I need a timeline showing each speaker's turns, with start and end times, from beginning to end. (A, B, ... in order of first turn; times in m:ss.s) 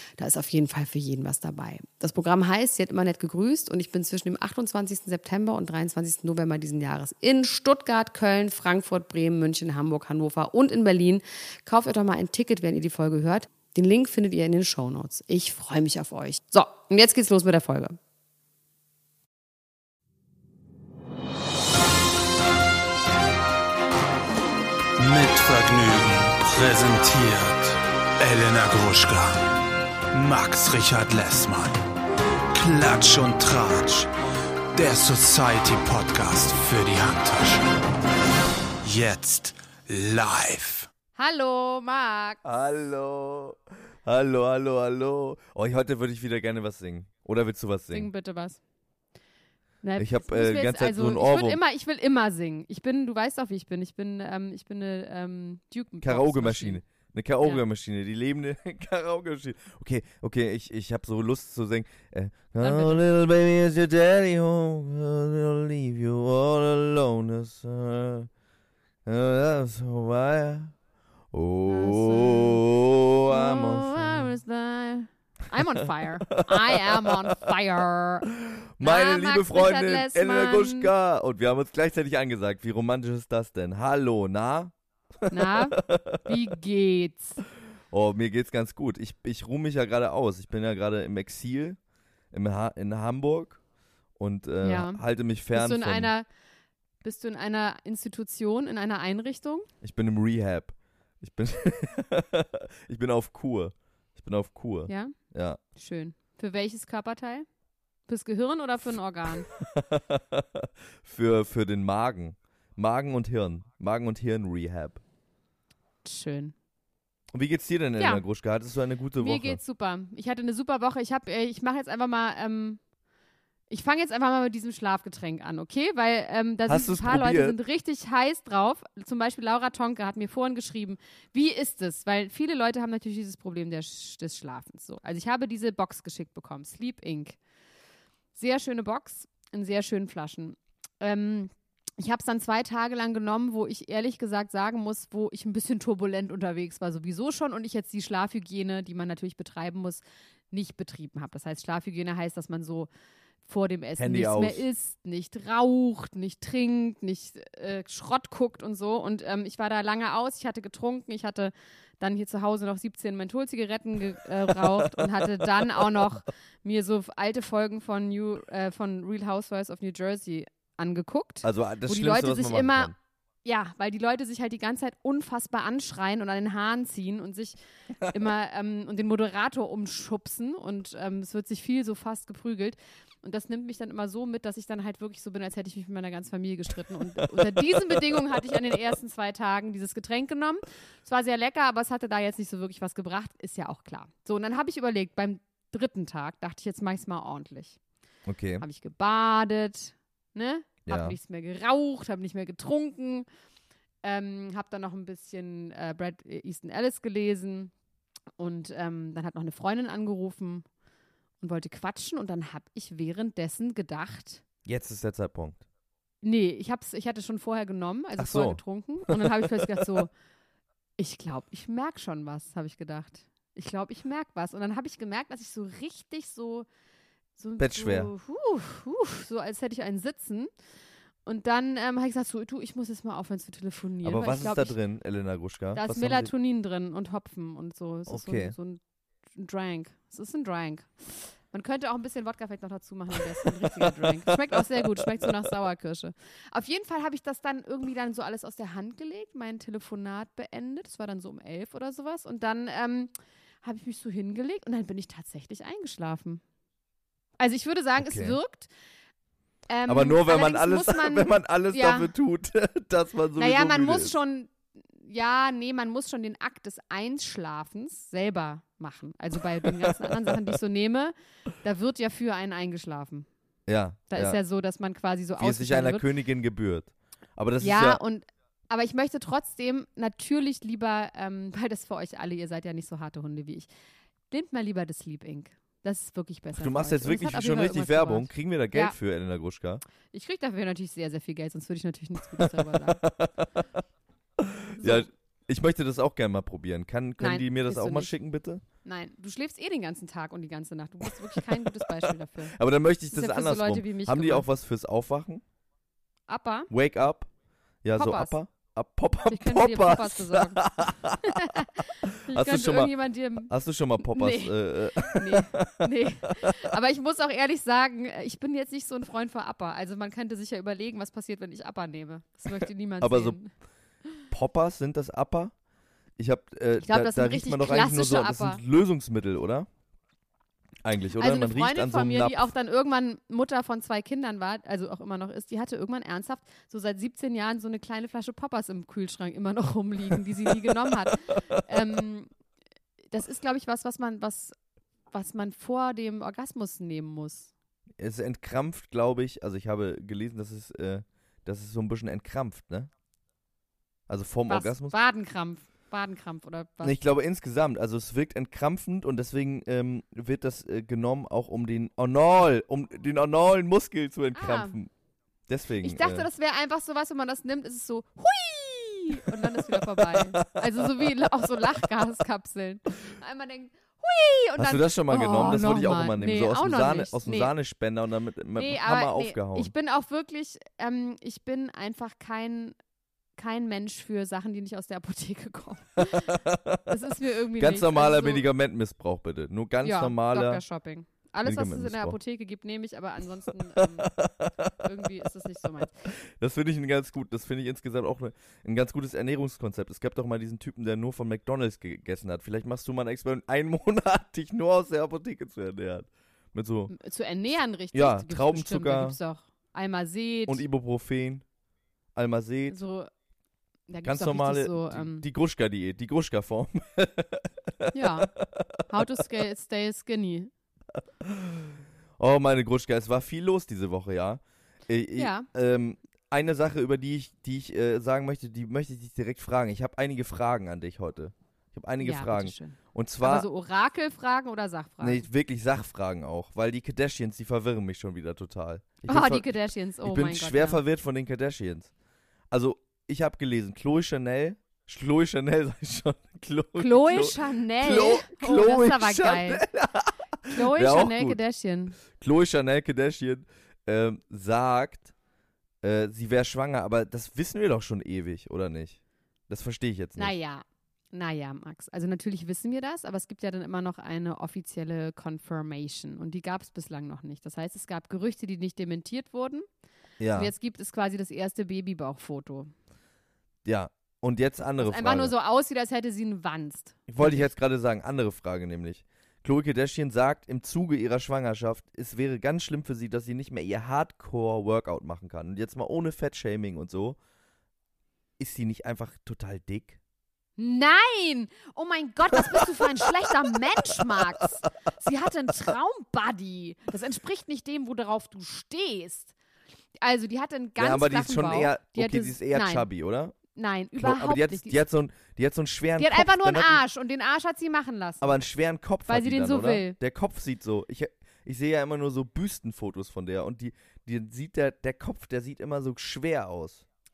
0:00.2-0:18.0 A
0:25.0-0:29.5 B
0:30.1-0:31.8 B
0:32.5-0:34.1 B
0:34.7-0:37.7 B
0:38.8-0:40.9 B
0:41.2-0:42.4 A
0:42.4-0:48.1 C
0:47.9-0:48.6 A
0:49.8-0:56.8 A
0:50.0-0:51.6 C
0:56.0-1:08.3 C
1:02.6-1:03.0 A
1:09.0-1:10.7 C
1:11.3-1:14.3 C
1:11.7-1:12.6 A
1:13.3-1:18.3 A
1:16.3-1:17.5 C
1:18.4-1:24.7 C
1:18.8-1:20.9 A
1:25.2-1:26.3 C
1:25.3-1:27.4 A
1:27.9-1:31.8 C
1:32.3-1:33.6 C
1:34.2-1:36.1 C
1:34.6-1:35.0 A
1:35.5-1:36.3 A
1:37.0-1:39.7 A
1:39.8-1:45.6 C
1:44.9-1:45.2 A
1:45.7-1:47.5 A
1:48.1-1:49.5 A
1:49.5-1:55.0 C
1:56.0-1:56.5 A
1:57.3-1:59.6 C
1:58.0-1:58.2 A
1:59.2-2:02.8 A
2:03.7-2:17.4 A
2:06.7-2:07.6 C
2:18.3-2:32.9 A
2:33.4-2:52.9 A
2:34.0-2:34.6 C
2:44.6-2:45.9 C
2:51.4-2:52.9 C
2:53.4-3:17.8 A
3:18.3-3:18.6 C
3:18.6-3:23.3 A
3:20.9-3:21.2 C
3:24.0-3:27.7 A
3:28.4-3:30.6 A
3:31.4-3:34.4 A
3:34.7-3:35.6 C
3:36.2-3:40.1 A
3:38.2-3:40.0 C
3:41.0-3:46.7 A
3:47.4-3:50.5 A
3:47.6-3:48.1 C
3:51.3-3:54.8 A
3:54.0-3:56.3 C
3:55.8-3:58.8 A
3:58.1-3:58.6 C
3:59.3-4:16.4 A
4:03.4-4:05.3 C
4:17.4-4:18.7 A
4:18.0-4:18.4 C
4:19.7-4:22.1 A
4:19.9-4:24.1 C
4:23.4-4:33.3 A
4:29.6-4:29.9 C
4:33.7-4:34.4 C
4:34.1-4:36.1 A
4:35.4-4:38.0 C
4:37.6-4:43.7 A
4:44.3-4:49.0 A
4:46.6-4:49.8 C
4:50.1-4:53.0 A
4:52.3-4:53.4 C
4:54.4-4:58.6 C
4:54.8-4:55.1 A
4:57.2-4:58.1 A
4:58.8-5:02.6 A
5:01.1-5:05.4 C
5:03.1-5:04.5 A
5:06.3-5:06.7 A
5:06.7-5:07.3 C
5:07.8-5:12.9 C
5:08.0-5:08.4 A
5:09.3-5:10.6 A
5:11.2-5:23.5 A
5:13.5-5:16.5 C
5:22.6-5:23.4 C
5:24.3-5:25.5 C
5:26.2-5:29.7 C
5:26.8-5:28.6 A
5:30.8-5:32.5 C
5:31.2-5:42.3 A
5:43.1-5:44.5 A
5:45.1-5:47.5 A
5:48.0-5:52.9 C
5:54.1-5:54.9 C
5:54.5-5:57.0 A
5:56.8-6:04.9 C
6:04.3-6:04.8 A
6:05.5-6:06.3 C
6:05.8-6:17.5 A
6:09.3-6:11.1 C
6:14.6-6:19.7 C
6:18.6-6:22.8 A
6:23.4-6:28.4 A
6:26.1-6:26.9 C
6:27.6-6:30.6 C
6:29.8-6:34.2 A
6:31.4-6:32.2 C
6:33.8-6:34.7 C
6:34.7-6:36.1 A
6:36.2-6:46.9 C
6:46.9-6:50.6 A
6:47.9-6:49.2 C
6:50.5-6:51.5 C
6:52.2-6:52.8 C
6:52.7-6:53.1 A
6:53.9-6:55.3 A
6:54.0-6:59.0 C
6:57.9-6:58.3 A
6:58.9-7:00.5 A
7:01.2-7:13.5 C
7:05.2-7:05.5 A
7:12.0-7:15.3 A
7:15.0-7:19.5 C
7:19.0-7:20.8 A
7:20.0-7:21.9 C
7:22.5-7:31.4 C
7:26.8-7:29.6 A
7:30.5-7:32.0 A
7:32.1-7:35.1 C
7:35.8-7:40.3 C
7:40.2-7:49.7 A
7:50.2-7:50.5 C
7:50.3-7:52.7 A
7:53.6-7:55.3 C
7:54.8-7:57.5 A
7:57.1-8:07.2 C
8:08.4-8:10.0 C
8:10.6-8:19.3 A
8:20.0-8:22.9 A
8:20.8-8:23.4 C
8:23.5-8:24.8 A
8:24.0-8:26.8 C
8:26.0-8:28.4 A
8:28.2-8:36.8 C
8:29.1-8:30.0 A